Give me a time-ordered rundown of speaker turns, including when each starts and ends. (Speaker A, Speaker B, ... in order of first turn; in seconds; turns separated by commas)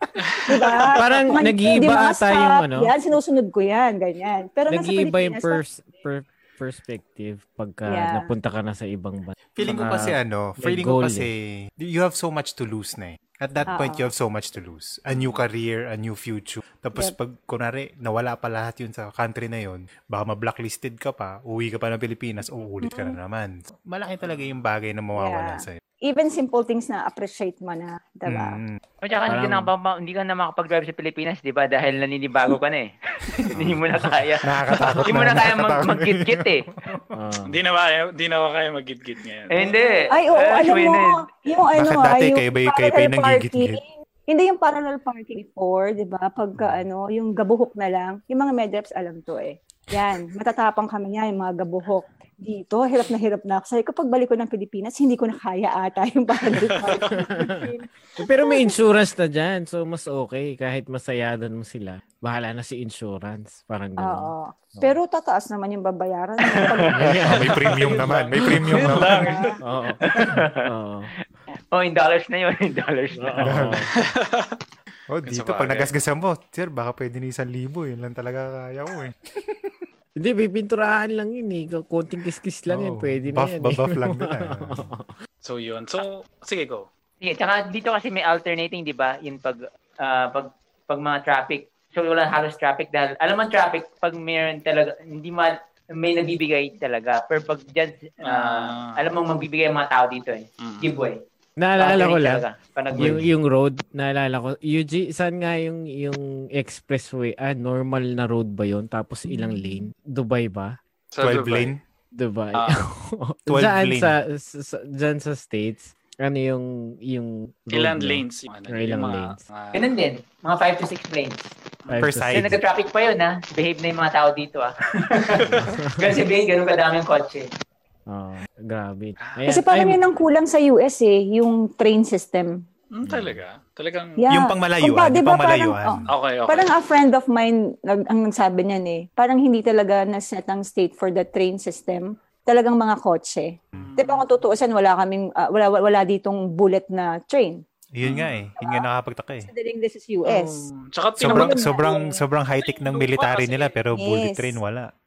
Speaker A: 0.2-0.9, Speaker B: 0.5-5.6, Speaker C: 0.9-2.9, Speaker C: 4.7-11.3, Speaker B: 7.9-8.3, Speaker D: 9.6-25.8, Speaker B: 13.7-14.1, Speaker A: 15.1-15.4, Speaker B: 22.8-23.2, Speaker A: 24.2-24.6, Speaker B: 25.2-28.6, Speaker D: 28.3-28.8, Speaker E: 29.0-36.7, Speaker C: 29.3-29.7, Speaker D: 33.5-33.9, Speaker D: 34.4-37.2, Speaker C: 37.1-37.5, Speaker A: 37.5-39.8, Speaker E: 39.5-41.2, Speaker B: 40.1-58.8, Speaker D: 41.7-43.8, Speaker A: 56.6-57.1, Speaker C: 57.1-65.0, Speaker B: 64.0-67.3, Speaker C: 66.9-69.0, Speaker D: 67.2-69.3, Speaker A: 67.2-69.6, Speaker B: 69.1-69.6, Speaker C: 69.6-70.0, Speaker E: 70.1-70.7, Speaker C: 70.6-71.1, Speaker E: 71.7-73.7, Speaker C: 73.2-73.9, Speaker D: 73.4-73.9, Speaker A: 74.0-74.6, Speaker D: 75.1-79.8, Speaker A: 75.2-76.0, Speaker C: 80.2-85.1, Speaker D: 82.7-84.9, Speaker A: 85.4-86.9, Speaker E: 87.2-101.2, Speaker A: 98.2-99.0, Speaker A: 100.6-100.9, Speaker C: 101.6-102.4, Speaker E: 101.8-103.2, Speaker C: 103.0-110.8, Speaker B: 109.3-109.8, Speaker A: 111.1-111.8, Speaker D: 111.2-111.8, Speaker C: 112.1-119.4, Speaker A: 112.5-112.9, Speaker D: 113.5-114.2, Speaker A: 117.7-120.0, Speaker E: 119.8-121.5, Speaker C: 121.9-122.6, Speaker D: 122.0-122.6, Speaker E: 122.3-127.5, Speaker C: 125.5-126.2, Speaker C: 128.1-130.0, Speaker A: 129.2-129.5, Speaker B: 129.5-132.6, Speaker A: 132.9-134.2, Speaker C: 133.1-133.4, Speaker B: 134.2-147.6, Speaker D: 134.3-136.1, Speaker A: 136.1-136.7, Speaker A: 143.8-144.3, Speaker D: 147.9-149.5, Speaker A: 148.0-148.5, Speaker B: 148.6-148.9, Speaker B: 149.4-150.7, Speaker A: 150.2-151.8, Speaker D: 151.2-154.9, Speaker B: 151.2-152.2, Speaker A: 152.6-153.8, Speaker B: 153.9-154.6